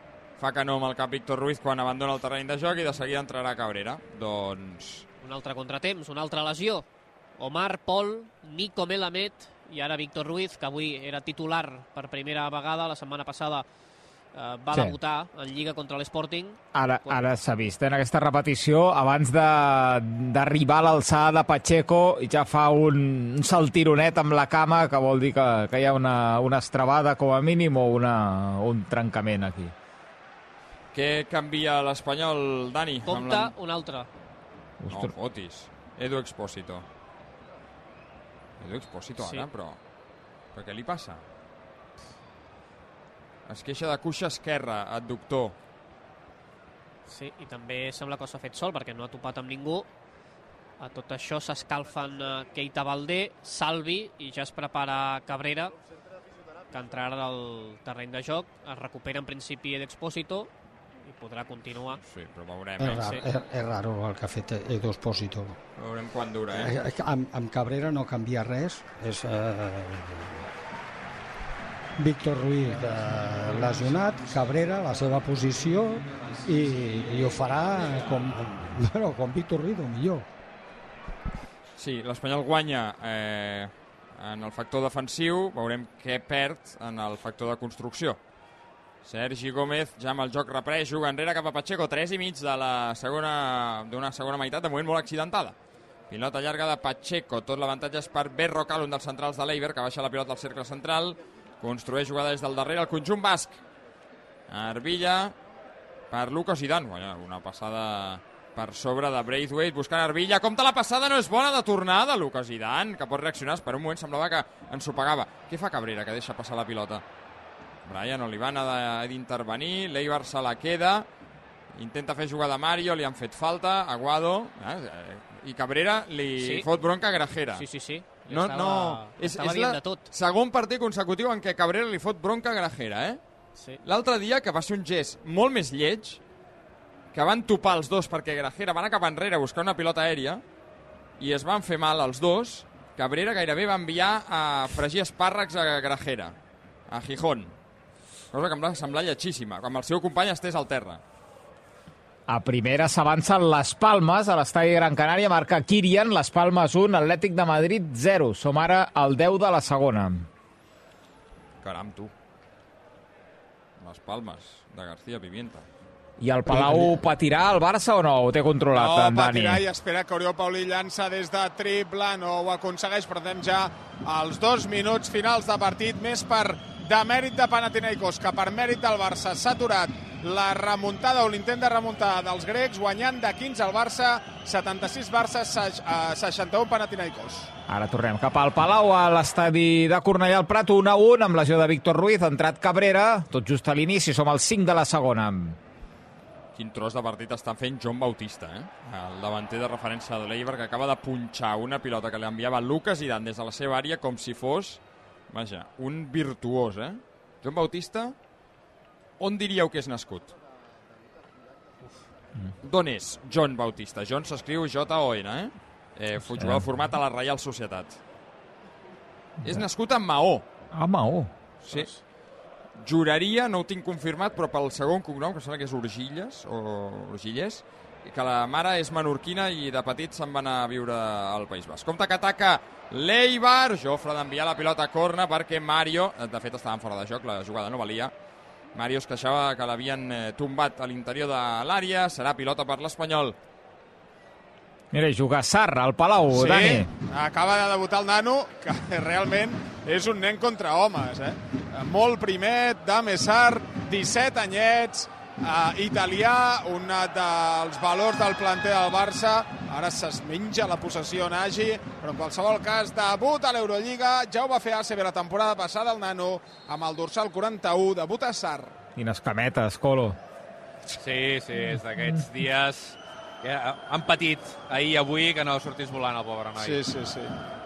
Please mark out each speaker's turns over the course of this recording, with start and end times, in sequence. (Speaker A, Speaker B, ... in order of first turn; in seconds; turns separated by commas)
Speaker A: 0.4-5.0, Speaker B: 5.2-6.8, Speaker B: 7.4-13.6, Speaker B: 14.3-17.2, Speaker C: 16.7-29.7, Speaker A: 30.9-33.5, Speaker B: 33.1-34.1, Speaker C: 34.8-35.1, Speaker A: 34.9-36.8, Speaker A: 38.6-39.8, Speaker B: 39.2-39.5, Speaker A: 40.5-41.2, Speaker A: 43.5-45.5, Speaker B: 47.1-49.9, Speaker B: 50.8-55.7, Speaker B: 56.7-60.5, Speaker B: 61.0-62.0, Speaker A: 62.0-63.2, Speaker D: 62.8-65.6, Speaker B: 62.9-63.2, Speaker A: 65.8-66.7, Speaker D: 66.5-70.4, Speaker D: 72.0-80.3, Speaker A: 81.8-88.2, Speaker A: 89.0-95.5, Speaker A: 96.1-103.6, Speaker A: 104.5-105.3, Speaker A: 106.1-117.0, Speaker A: 117.8-121.1, Speaker A: 121.7-127.6, Speaker B: 126.4-126.7, Speaker B: 127.5-130.1, Speaker A: 128.3-133.2, Speaker A: 133.8-136.2, Speaker A: 137.1-140.4, Speaker A: 141.2-146.3, Speaker A: 146.9-147.5, Speaker A: 148.3-151.0, Speaker C: 152.3-160.3, Speaker A: 161.6-162.1, Speaker A: 163.8-165.6, Speaker C: 166.2-169.6, Speaker E: 166.5-166.9, Speaker E: 168.7-187.5, Speaker C: 187.7-195.6, Speaker A: 196.5-204.8, Speaker A: 205.3-208.1, Speaker A: 209.2-210.3, Speaker A: 212.6-218.0, Speaker C: 216.3-216.7, Speaker A: 219.4-220.4, Speaker C: 220.7-221.3, Speaker B: 221.7-222.0, Speaker A: 222.8-238.1, Speaker A: 238.7-243.3, Speaker C: 244.9-246.9, Speaker E: 246.3-268.7, Speaker C: 268.9-270.2, Speaker F: 271.0-276.8, Speaker E: 276.6-277.3